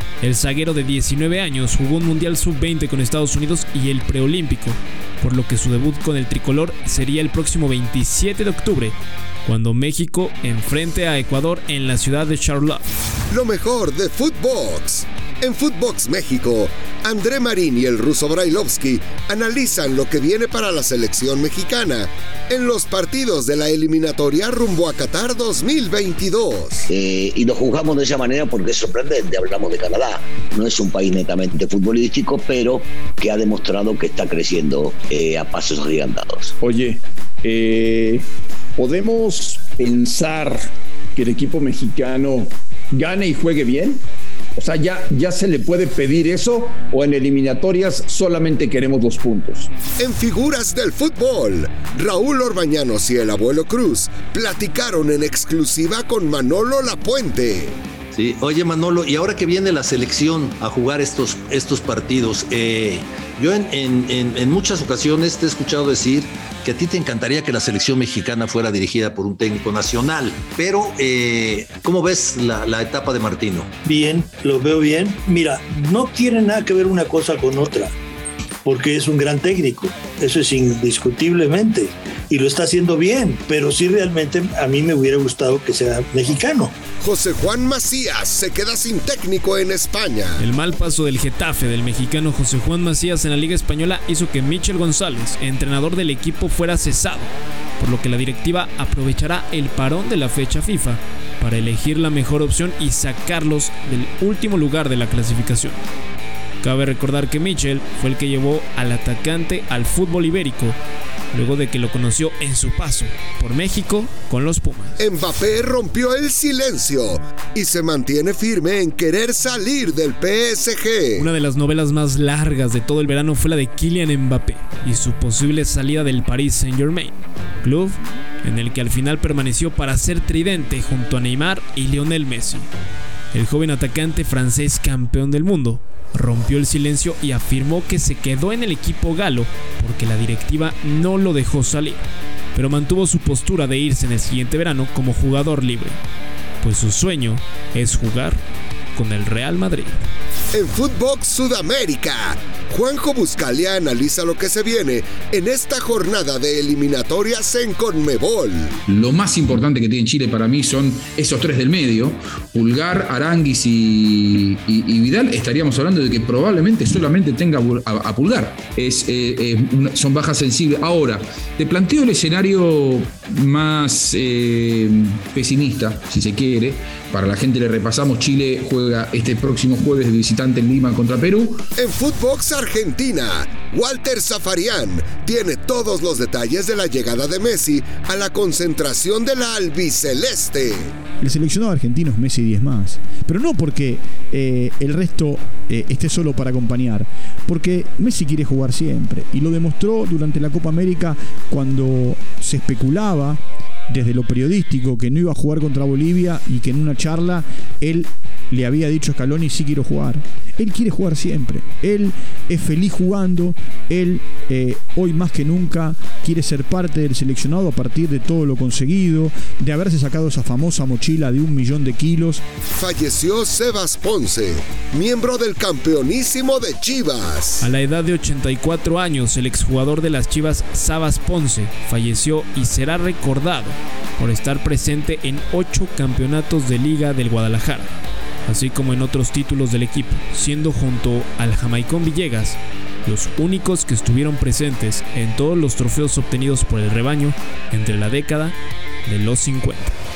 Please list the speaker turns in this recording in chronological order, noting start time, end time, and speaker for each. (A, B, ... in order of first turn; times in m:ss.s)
0:00.2-0:12.8 A
0:13.3-0:26.8 B
0:26.9-0:36.5 C
0:36.6-0:38.2 D
0:38.8-0:44.0 D
0:44.6-0:49.7 D
0:50.0-0:57.8 B
0:58.1-1:13.7 E
1:13.8-1:17.9 F
1:18.6-1:26.7 F
1:27.0-1:30.4 B
1:30.4-1:45.8 A
1:46.6-1:50.8 A
1:51.3-1:55.0 A
1:55.0-2:01.2 B
2:01.2-2:12.7 A
2:13.3-2:26.0 A
2:26.6-2:28.4 A
2:28.9-2:30.0 A
2:30.5-2:38.8 B
2:38.9-3:01.6 G
3:01.8-3:10.9 B
3:11.2-3:42.4 H
3:42.7-3:47.7 B
3:47.6-3:57.9 A
3:58.4-4:08.5 A
4:09.0-4:09.9 A